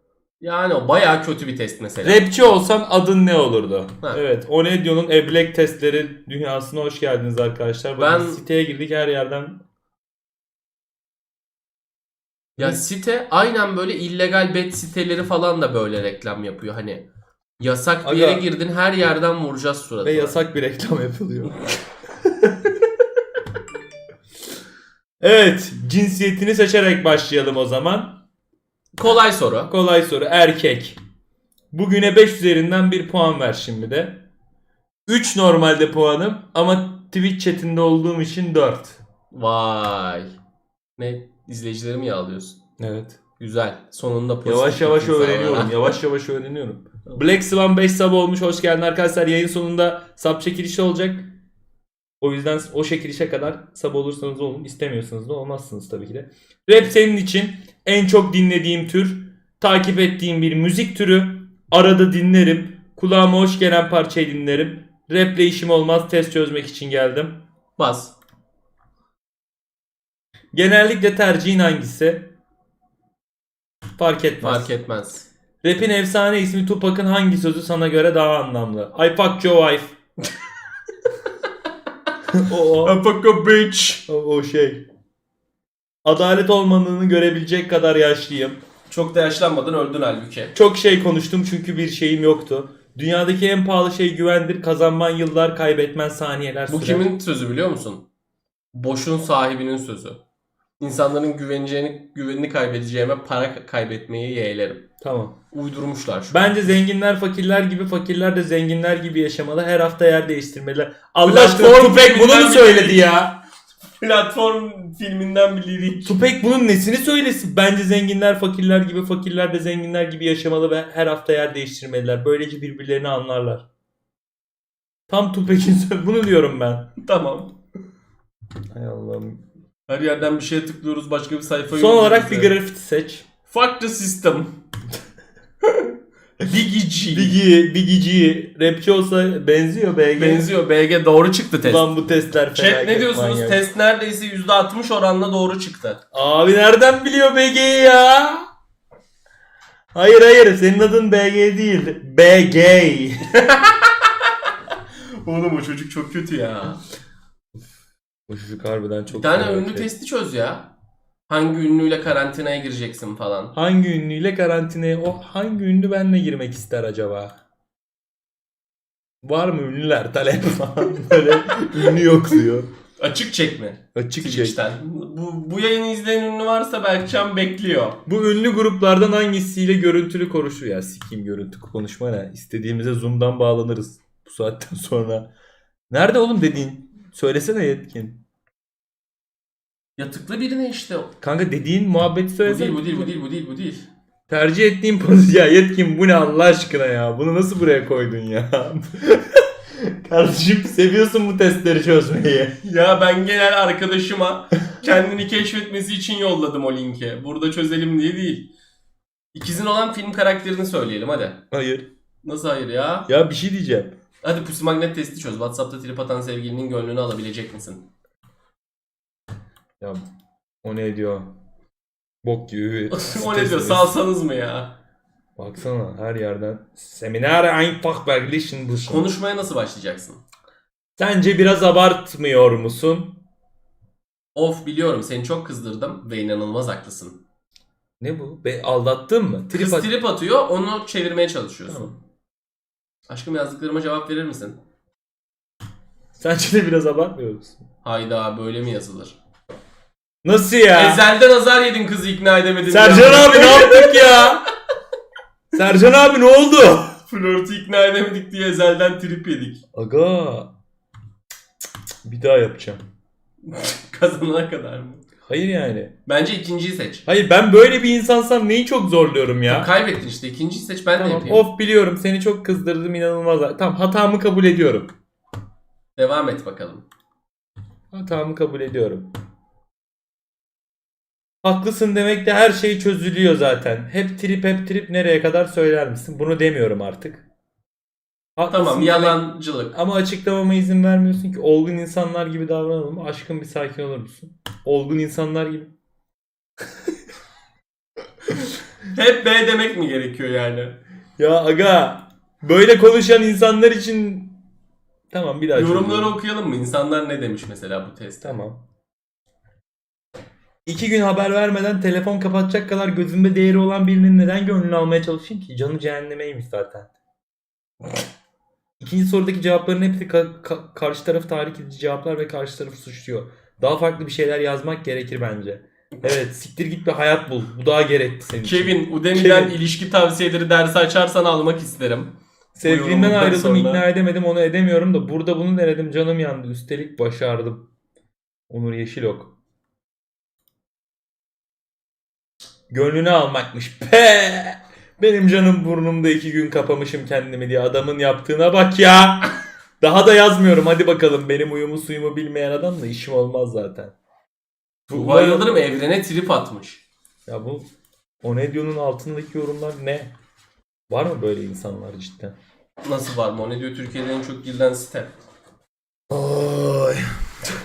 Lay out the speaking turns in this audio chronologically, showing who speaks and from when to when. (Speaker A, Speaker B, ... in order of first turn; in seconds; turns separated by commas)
Speaker A: 0.4-2.2, Speaker B: 2.0-9.6, Speaker A: 8.0-8.4, Speaker A: 12.6-17.1, Speaker A: 17.6-20.4, Speaker B: 18.0-18.5, Speaker B: 20.0-21.7, Speaker B: 22.4-22.7, Speaker B: 25.2-28.2, Speaker A: 28.9-29.7, Speaker B: 29.7-31.0, Speaker B: 31.7-34.2, Speaker B: 35.1-39.0, Speaker A: 39.3-40.3, Speaker A: 41.0-42.6, Speaker B: 42.8-43.2, Speaker A: 43.4-45.9, Speaker B: 44.5-51.3, Speaker B: 52.2-67.4, Speaker A: 67.8-68.1, Speaker B: 70.5-72.3, Speaker B: 74.0-74.7, Speaker A: 74.4-75.3, Speaker B: 75.6-80.0, Speaker B: 82.3-83.0, Speaker A: 82.8-84.0, Speaker B: 84.1-84.8, Speaker B: 86.0-88.6, Speaker A: 88.9-90.5, Speaker B: 90.5-97.1, Speaker A: 96.7-98.0, Speaker A: 98.7-100.2, Speaker A: 100.8-104.8, Speaker B: 105.0-105.4, Speaker A: 105.5-106.5, Speaker B: 106.3-113.4, Speaker A: 111.2-113.1, Speaker A: 114.0-116.2, Speaker B: 116.0-123.7, Speaker B: 125.1-126.9, Speaker A: 127.0-127.5, Speaker B: 128.7-129.4, Speaker A: 129.9-132.6, Speaker B: 131.7-133.2, Speaker A: 133.5-134.6, Speaker A: 135.6-135.9, Speaker A: 136.4-137.4, Speaker B: 137.1-140.5, Speaker A: 140.2-141.9, Speaker B: 141.6-143.6, Speaker A: 142.5-146.0, Speaker B: 146.1-148.4, Speaker B: 149.9-153.3, Speaker A: 153.3-154.1, Speaker A: 155.2-156.8, Speaker B: 158.3-159.9, Speaker A: 159.1-160.7, Speaker A: 161.3-163.5, Speaker B: 163.5-167.4, Speaker B: 169.2-172.7, Speaker A: 173.0-178.0, Speaker B: 173.9-174.6, Speaker B: 178.1-185.3, Speaker B: 185.9-188.2, Speaker A: 190.0-191.1, Speaker B: 191.2-193.1, Speaker A: 192.4-193.9, Speaker B: 194.3-202.6, Speaker A: 202.6-208.5, Speaker A: 209.3-211.4, Speaker B: 211.5-211.9, Speaker A: 212.2-213.1, Speaker B: 213.1-213.9, Speaker A: 214.2-217.8, Speaker B: 220.6-221.3, Speaker B: 222.2-224.0, Speaker A: 222.9-224.8, Speaker B: 225.4-229.1, Speaker A: 228.8-230.2, Speaker B: 231.0-233.2, Speaker A: 234.3-237.2, Speaker B: 238.0-239.9, Speaker A: 239.5-241.9, Speaker A: 243.1-244.6, Speaker B: 246.2-247.6, Speaker A: 247.8-249.2, Speaker B: 250.2-251.0, Speaker A: 250.8-254.4, Speaker B: 252.7-254.4, Speaker B: 255.5-257.0, Speaker A: 257.1-259.6, Speaker B: 259.8-260.5, Speaker B: 262.1-262.8, Speaker A: 263.4-265.0, Speaker B: 265.3-265.9, Speaker A: 266.1-267.1, Speaker B: 267.1-269.7, Speaker A: 269.5-271.4, Speaker B: 271.0-274.9, Speaker A: 276.0-276.9, Speaker B: 277.9-279.1, Speaker B: 281.4-287.3, Speaker B: 288.4-295.7, Speaker A: 288.5-289.8, Speaker A: 298.9-300.8, Speaker B: 301.2-304.4, Speaker B: 305.1-306.2, Speaker A: 305.5-308.4, Speaker B: 308.2-308.6, Speaker B: 310.7-316.9, Speaker B: 318.8-329.6, Speaker A: 328.4-333.8, Speaker B: 332.6-337.7, Speaker B: 338.5-339.3, Speaker B: 342.7-349.3, Speaker B: 349.8-353.9, Speaker B: 354.9-355.8, Speaker A: 354.9-356.8, Speaker B: 357.3-357.7, Speaker B: 358.2-360.1, Speaker B: 360.9-362.4, Speaker A: 362.8-365.2, Speaker B: 366.1-367.1